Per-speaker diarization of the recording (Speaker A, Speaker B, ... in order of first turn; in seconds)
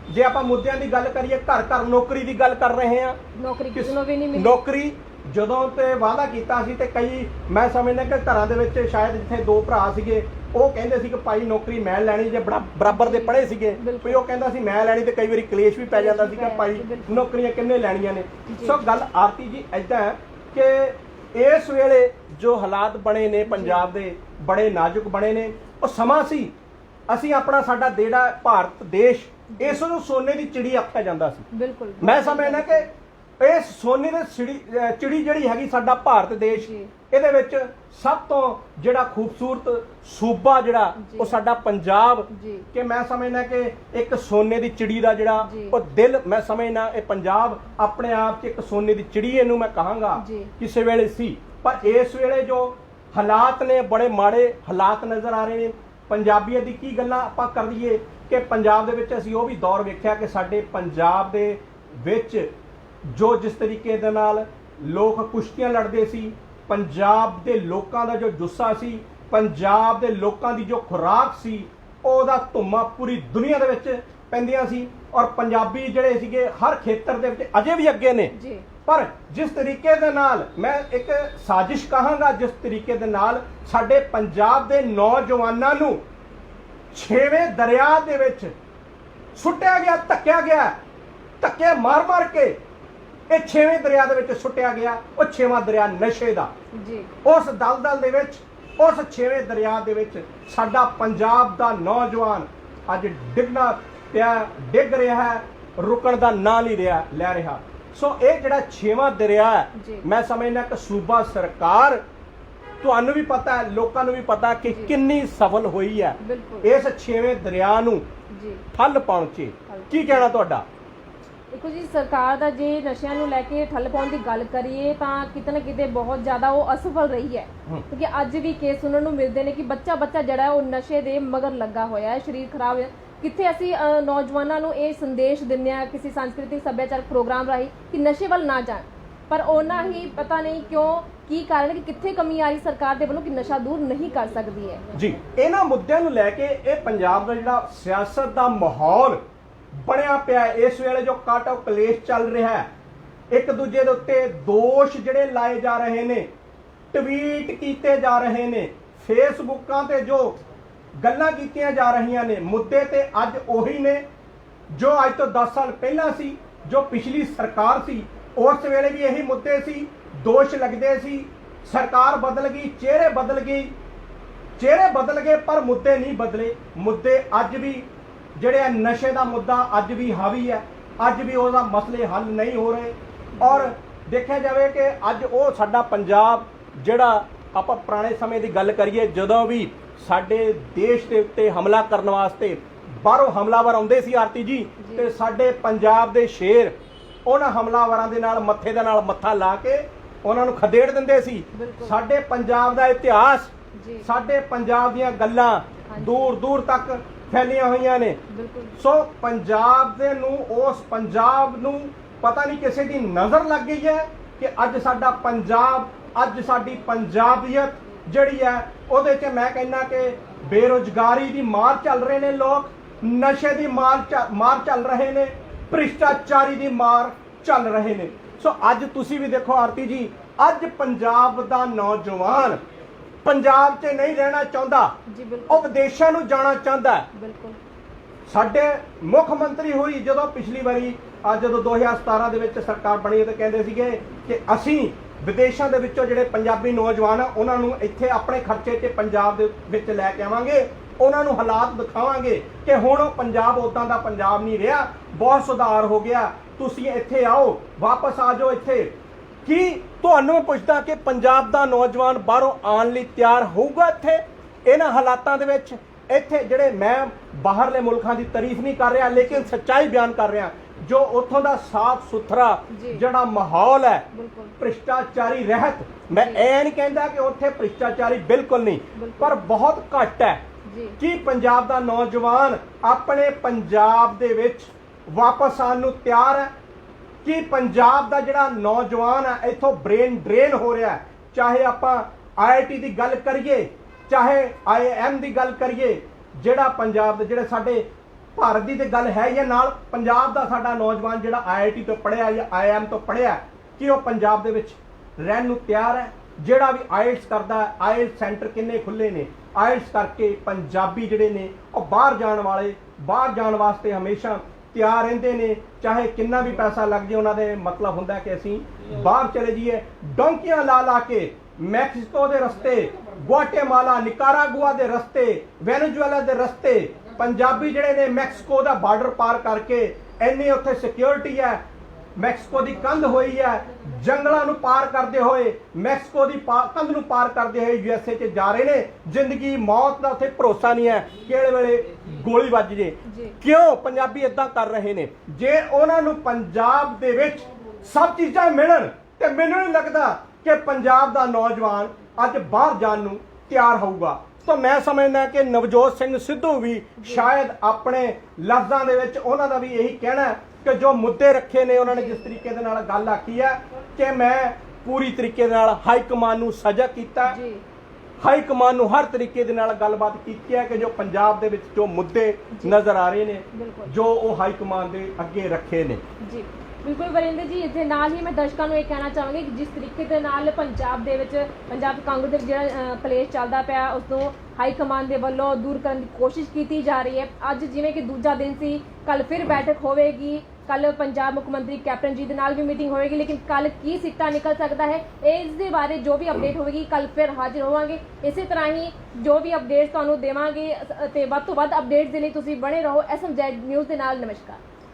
Speaker A: 0.1-3.2, 3.7-26.5, 27.1-31.4, 32.0-32.9, 33.4-62.5, 63.1-78.3, 78.9-86.0, 86.9-88.5, 89.3-90.8, 91.4-92.6, 93.3-96.5, 97.2-112.0, 112.8-118.0, 118.7-120.7, 144.9-149.2, 149.7-152.7, 153.3-156.3, 156.9-160.4, 161.0-164.0, 164.7-173.7, 174.6-196.8, 197.3-208.2, 208.8-232.6, 233.2-234.9, 235.5-237.1, 238.3-258.9, 259.4-274.1, 274.6-280.4, 281.0-286.5, 287.2-331.6, 332.2-367.4, 368.2-376.0
Speaker B: 3.4-4.6, 12.9-14.2, 15.9-17.3, 18.5-18.8, 23.5-23.9, 29.5-29.8, 31.5-32.9, 36.5-36.9, 41.0-41.4, 42.3-42.7, 45.4-45.8, 50.1-50.5, 78.3-78.7, 96.8-97.1, 109.8-110.0, 114.7-114.9, 116.2-116.7, 118.3-118.6, 119.7-120.2, 121.5-144.8, 183.4-183.7, 194.8-195.1, 201.5-202.0, 203.8-204.1, 205.9-206.4, 208.3-208.8, 235.1-235.8, 237.1-237.6, 269.2-269.5, 272.7-273.0, 274.1-274.6, 276.1-276.5, 279.0-279.5, 280.6-281.0, 343.1-343.4, 357.0-357.3, 361.8-362.3, 367.3-367.6, 372.5-372.8, 373.5-373.9, 376.2-404.6